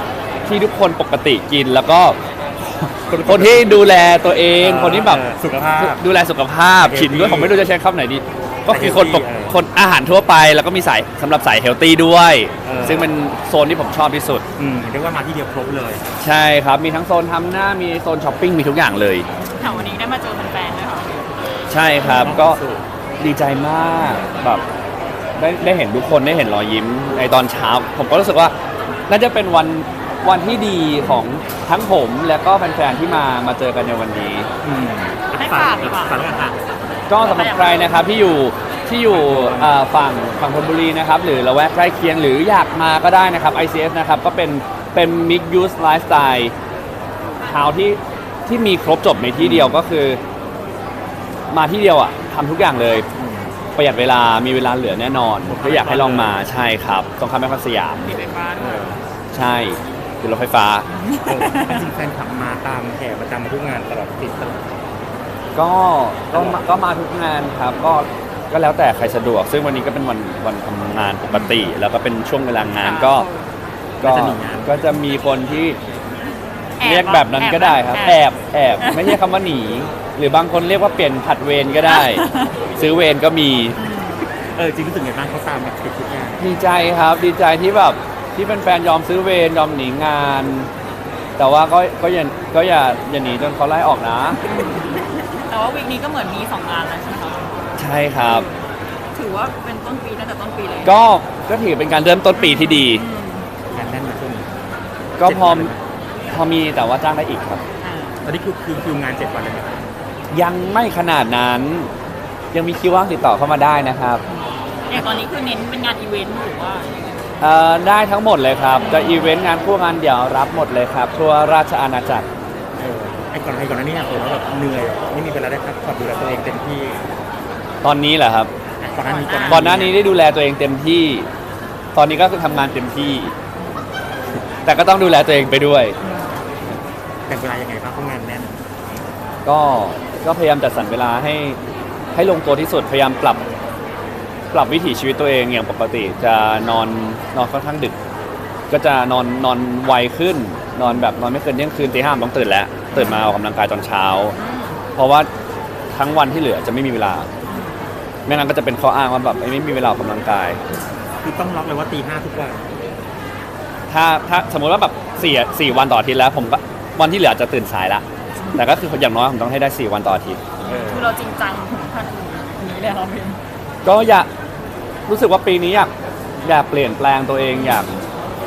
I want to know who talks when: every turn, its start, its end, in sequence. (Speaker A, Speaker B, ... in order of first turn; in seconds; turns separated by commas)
Speaker A: 0.5-2.2, Speaker A: 2.8-5.2, Speaker B: 3.1-3.8, Speaker B: 4.6-6.0, Speaker A: 5.8-14.4, Speaker B: 6.8-7.5, Speaker B: 8.7-9.6, Speaker B: 12.6-13.1, Speaker B: 14.6-16.0, Speaker A: 16.2-19.3, Speaker C: 19.6-21.4, Speaker B: 19.6-20.0, Speaker A: 21.7-22.6, Speaker C: 22.0-22.4, Speaker B: 22.0-22.9, Speaker A: 23.2-24.6, Speaker A: 25.4-28.6, Speaker A: 29.1-34.5, Speaker B: 34.6-36.6, Speaker C: 35.4-36.3, Speaker C: 37.1-38.2, Speaker A: 37.1-46.5, Speaker B: 39.1-39.7, Speaker A: 47.4-50.2, Speaker B: 49.4-49.8, Speaker A: 51.5-53.1, Speaker B: 53.2-53.5, Speaker A: 53.8-58.2, Speaker B: 55.5-56.5, Speaker C: 58.0-59.0, Speaker B: 58.6-59.0, Speaker A: 59.3-60.9, Speaker C: 60.9-61.9, Speaker B: 61.3-64.8, Speaker A: 65.5-73.3, Speaker B: 66.3-66.6, Speaker C: 71.3-71.7, Speaker C: 72.8-73.5, Speaker B: 74.0-74.7, Speaker A: 74.0-75.8, Speaker C: 76.8-78.2, Speaker A: 76.8-82.2, Speaker C: 78.8-79.2, Speaker C: 81.8-82.6, Speaker A: 82.8-83.8, Speaker C: 83.8-84.3, Speaker B: 84.2-86.4, Speaker A: 86.4-90.7, Speaker A: 91.4-94.4, Speaker C: 94.4-98.6, Speaker A: 97.8-98.5, Speaker C: 99.2-100.9, Speaker A: 100.8-103.0, Speaker C: 102.3-103.5, Speaker B: 103.7-104.5, Speaker A: 105.2-105.7, Speaker B: 105.2-105.8, Speaker A: 106.3-107.6, Speaker C: 107.8-108.2, Speaker B: 108.2-109.8, Speaker A: 110.3-111.9, Speaker A: 112.5-114.2, Speaker C: 114.3-117.2, Speaker A: 117.4-122.3, Speaker C: 118.8-119.3, Speaker B: 122.8-127.1, Speaker A: 127.8-128.5, Speaker B: 128.8-130.0, Speaker C: 128.9-129.7, Speaker A: 129.4-131.3, Speaker A: 131.9-133.3, Speaker C: 133.6-133.8, Speaker A: 134.7-136.0, Speaker C: 136.0-136.4, Speaker B: 137.3-138.6, Speaker A: 139.4-141.6, Speaker A: 142.2-143.4, Speaker A: 144.5-147.9, Speaker A: 148.7-154.4, Speaker C: 150.8-151.1, Speaker C: 152.9-153.3, Speaker C: 154.3-154.8, Speaker A: 155.0-155.3, Speaker A: 155.9-157.3, Speaker C: 157.5-157.9, Speaker A: 158.3-160.6, Speaker B: 161.2-162.6, Speaker A: 163.9-170.4, Speaker C: 168.4-168.7, Speaker C: 170.6-173.4, Speaker B: 170.7-171.2, Speaker A: 173.8-174.3, Speaker A: 175.1-175.9, Speaker A: 176.4-178.0, Speaker C: 177.5-177.8